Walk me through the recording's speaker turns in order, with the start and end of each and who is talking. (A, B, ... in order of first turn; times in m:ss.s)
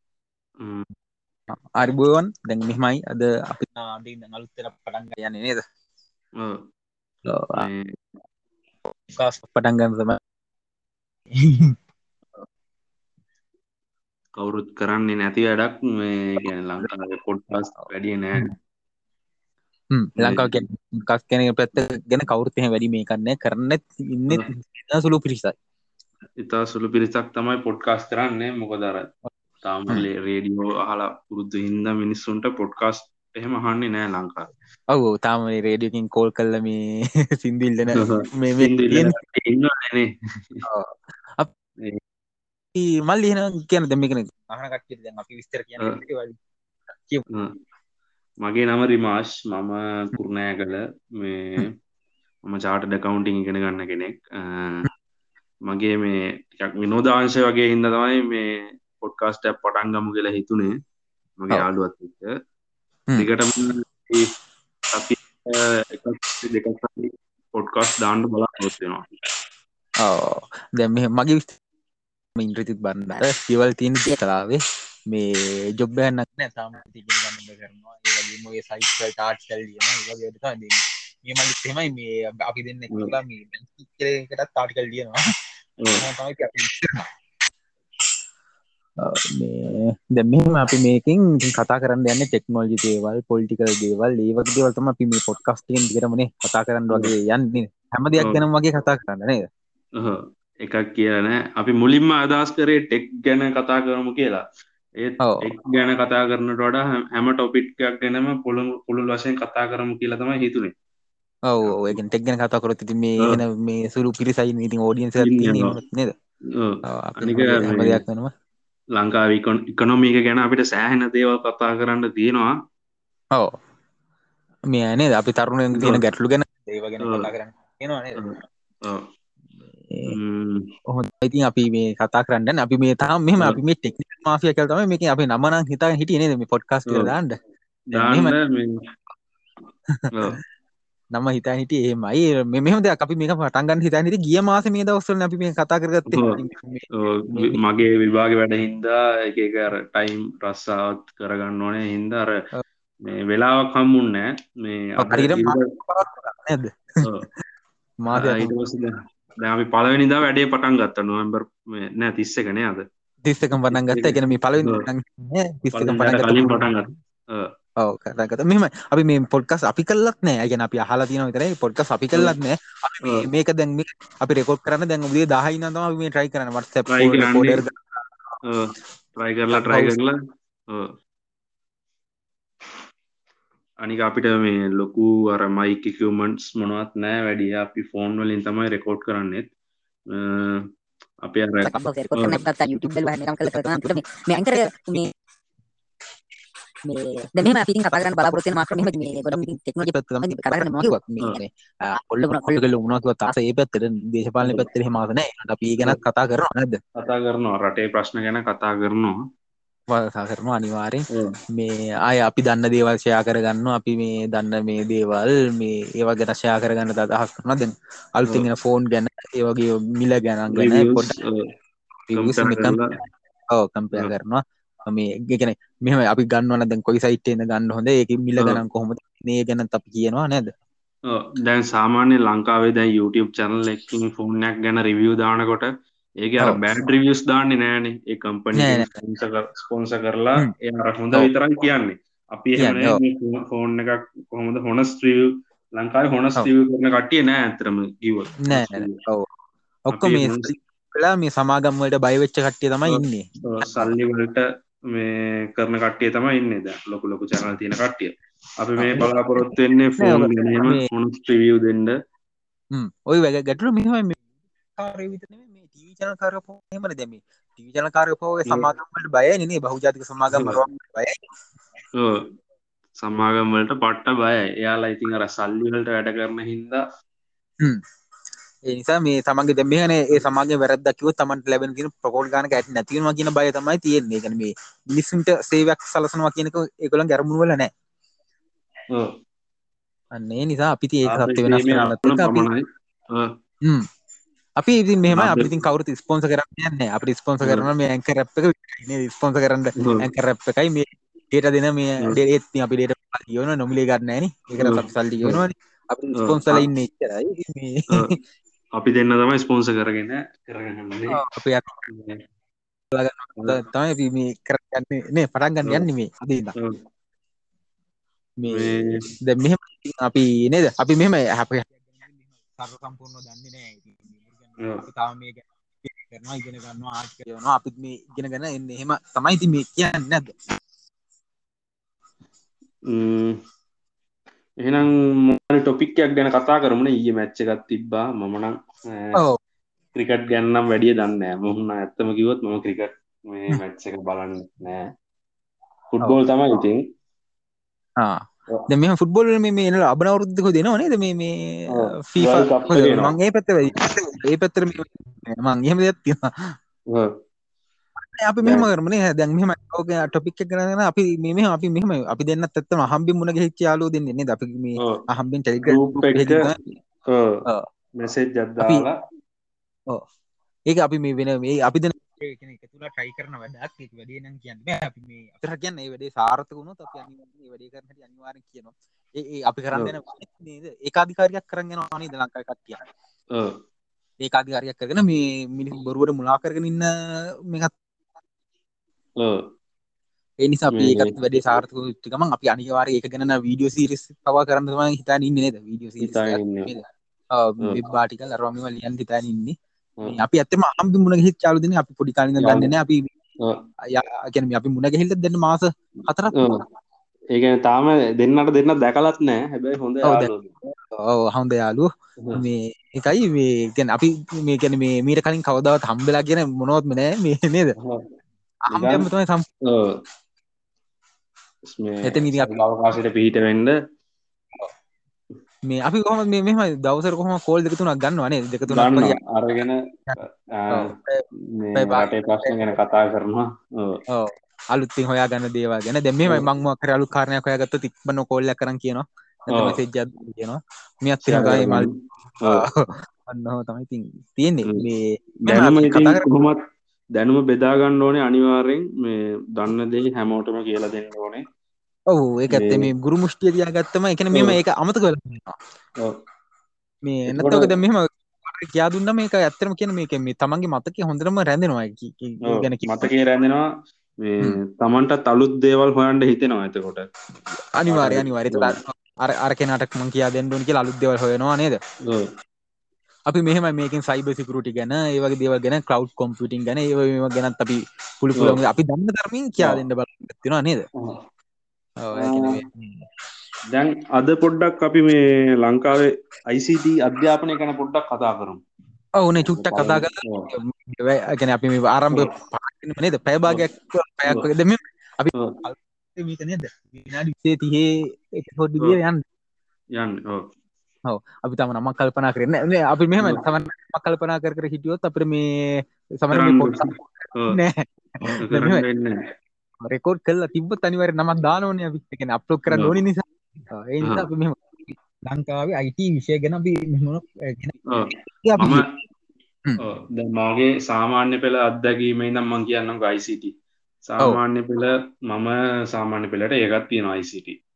0:00.6-0:00.9 A
0:01.5-0:05.6 B
0:07.3-0:07.7 B
0:07.5-0:08.0 A
0:09.1-0:10.2 B
0:11.3-0:11.8 B
0:14.4-0:18.5 A
0:19.9-0:25.6 B
0:20.2-0:20.6 A
0:26.4-0:29.1 A
0:29.7-0:34.5 A
0:34.9-0:39.2 B
0:38.0-0:40.7 A
0:40.7-0:41.5 B
0:42.8-0:46.4 B
0:47.0-0:47.2 B
0:48.4-0:51.7 A
0:52.5-0:54.9 A
0:55.7-1:00.8 A
1:01.4-1:02.3 A
1:03.2-1:04.3 A
1:04.9-1:09.1 A
1:10.0-1:11.6 B
1:12.4-1:25.2 B
1:26.0-1:27.1 B
1:29.0-1:39.4 B
1:40.0-1:44.4 A
1:45.0-1:50.7 A
1:45.2-1:45.5 B
1:51.5-1:56.1 B
1:51.6-1:52.0 A
1:55.2-1:55.8 A
1:56.6-1:58.0 A
1:56.9-1:58.3 B
1:59.0-2:02.5 A
2:04.7-2:08.2 B
2:05.7-2:06.0 A
2:07.0-2:07.3 A
2:08.2-2:09.0 A
2:09.9-2:10.2 B
2:10.0-2:10.7 A
2:10.9-2:17.4 B
2:16.9-2:17.1 A
2:17.9-2:18.8 A
2:17.9-2:18.4 B
2:21.1-2:27.6 B
2:26.1-2:26.4 A
2:26.9-2:32.4 A
2:33.0-2:35.7 A
2:35.0-2:37.1 B
2:38.0-2:38.5 B
2:38.2-2:42.8 A
2:43.2-2:46.7 B
2:43.7-2:44.8 A
2:45.7-2:47.5 A
2:47.8-2:58.4 B
2:56.9-2:57.6 A
2:58.4-3:00.1 A
2:59.5-3:00.0 B
3:03.8-3:09.5 A
3:10.1-3:10.7 A
3:11.2-3:12.4 A
3:11.6-3:15.1 C
3:16.8-3:21.0 C
3:20.0-3:26.8 B
3:22.3-3:22.6 C
3:27.0-3:29.2 A
3:29.9-3:41.1 B
3:40.5-3:41.4 A
3:42.1-3:42.9 B
3:42.1-3:43.0 A
3:43.5-3:50.5 B
3:48.4-3:48.6 A
3:51.1-3:55.7 A
3:56.2-4:09.0 A
3:58.6-3:58.9 B
4:02.6-4:03.0 B
4:08.4-4:09.3 B
4:09.9-4:13.9 B
4:09.9-4:10.5 A
4:12.9-4:22.0 A
4:18.8-4:20.9 B
4:22.7-4:24.2 B
4:24.8-4:31.2 B
4:30.3-4:30.6 A
4:32.0-4:32.3 A
4:33.0-4:36.8 A
4:38.7-4:47.7 B
4:50.1-4:52.5 B
4:51.1-4:53.3 A
4:54.6-5:08.2 B
4:55.1-4:55.5 A
4:57.4-4:57.7 A
5:04.6-5:05.4 A
5:06.2-5:06.7 A
5:08.8-5:11.2 A
5:11.1-5:11.8 B
5:11.9-5:12.2 A
5:12.9-5:16.6 B
5:18.4-5:22.0 B
5:18.5-5:19.0 A
5:22.5-5:30.4 B
5:32.9-5:33.4 A
5:34.6-5:39.2 A
5:40.0-5:44.9 A
5:45.9-5:46.8 A
5:48.0-5:56.6 B
5:51.7-5:53.2 A
5:58.0-6:06.6 B
5:58.4-5:58.7 A
6:05.7-6:07.4 A
6:08.0-6:09.0 A
6:10.7-6:22.8 B
6:24.2-6:27.7 B
6:30.4-6:39.6 B
6:30.7-6:31.1 A
6:36.0-6:36.7 A
6:40.1-6:43.1 B
6:42.4-6:42.7 A
6:43.9-6:46.5 B
6:47.3-6:50.6 A
6:50.0-6:57.8 B
6:57.8-6:58.1 A
6:58.7-6:59.5 B
6:58.7-6:59.1 A
6:59.6-7:00.0 A
7:01.7-7:03.8 A
7:02.0-7:02.6 B
7:05.7-7:09.2 B
7:08.7-7:11.0 A
7:10.7-7:11.2 B
7:11.5-7:14.0 A
7:11.8-7:12.6 B
7:14.1-7:21.9 B
7:19.5-7:19.8 A
7:21.2-7:21.9 A
7:22.4-7:26.3 B
7:25.5-7:26.6 A
7:27.2-7:31.4 A
7:32.1-7:35.6 B
7:32.5-7:32.9 A
7:34.3-7:34.6 A
7:37.0-7:43.1 B
7:37.3-7:37.7 A
7:42.5-7:43.7 A
7:44.2-7:47.1 A
7:47.8-7:51.8 B
7:47.9-7:48.8 A
7:53.3-8:00.9 B
8:02.0-8:03.1 B
8:02.2-8:02.6 A
8:03.7-8:08.6 A
8:09.2-8:19.2 B
8:09.5-8:10.5 A
8:15.3-8:15.6 A
8:20.0-8:20.5 A
8:21.1-8:27.9 B
8:26.3-8:27.6 A
8:28.3-8:29.2 A
8:28.4-8:28.8 B
8:29.8-8:38.8 B
8:32.7-8:33.0 A
8:37.9-8:38.8 A
8:39.8-8:43.5 A
8:44.1-8:47.6 A